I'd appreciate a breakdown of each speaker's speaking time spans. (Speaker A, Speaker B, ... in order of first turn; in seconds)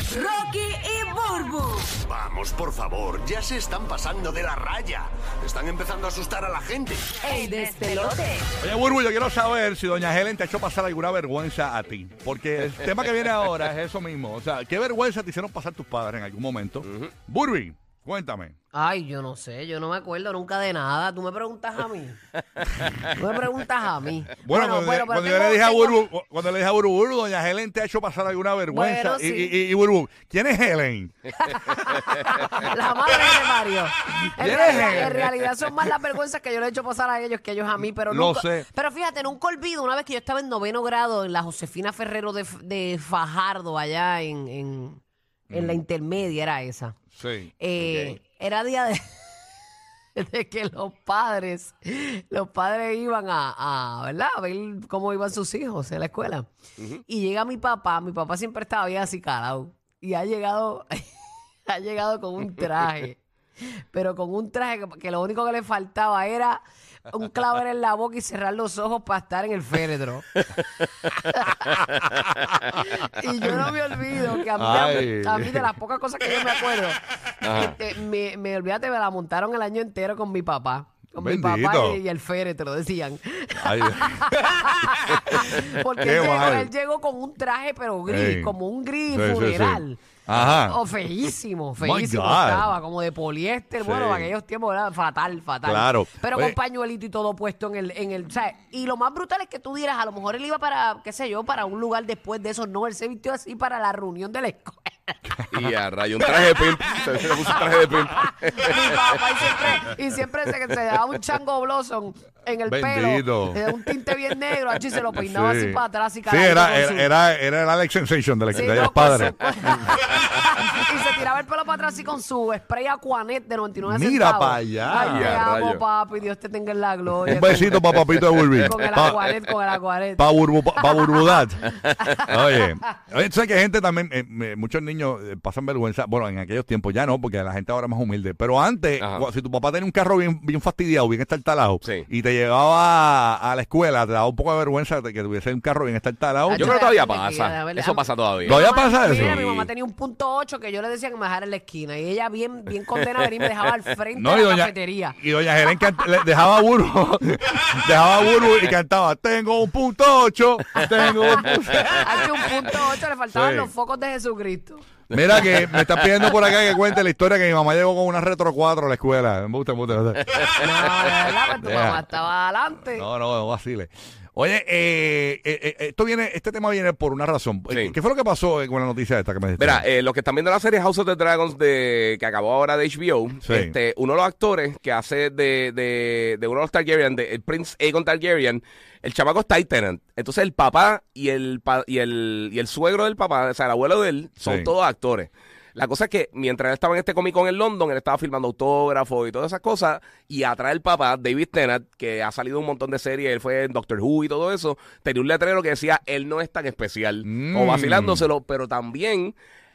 Speaker A: 0.3-1.8, 7.3-8.2
Speaker B: 2.0-7.1
Speaker C: 8.6-18.5, 24.4-31.7, 34.3-35.3, 38.1-38.7, 45.5-45.8, 47.1-47.5, 74.5-75.7, 81.2-82.0, 83.5-86.7, 88.1-88.5, 89.1-90.8, 91.8-92.7, 93.8-94.3, 95.6-96.6, 105.3-105.7, 112.7-113.6, 115.2-119.3, 123.8-125.4, 127.2-129.2, 130.2-146.8, 148.4-149.4, 154.1-162.3, 163.3-163.7, 165.1-170.4, 171.6-172.0, 172.9-179.8, 183.4-183.7, 194.4-194.7, 207.2-208.3
Speaker D: 16.8-17.1, 47.8-48.2, 77.4-77.8, 105.5-108.8, 118.5-119.3, 124.9-125.8, 127.3-129.2, 139.0-139.2, 146.6-149.7, 165.2-166.1, 177.7-177.9, 179.6-209.3
Speaker E: 18.7-22.2, 23.1-26.0, 28.7-29.5, 31.4-47.0, 47.6-49.3, 50.1-56.5, 57.0-61.1, 61.7-70.2, 71.3-71.8, 72.7-77.0, 77.5-105.2, 108.5-117.1, 118.5-128.0, 128.5-132.7, 146.5-156.1, 161.0-164.8, 170.6-173.1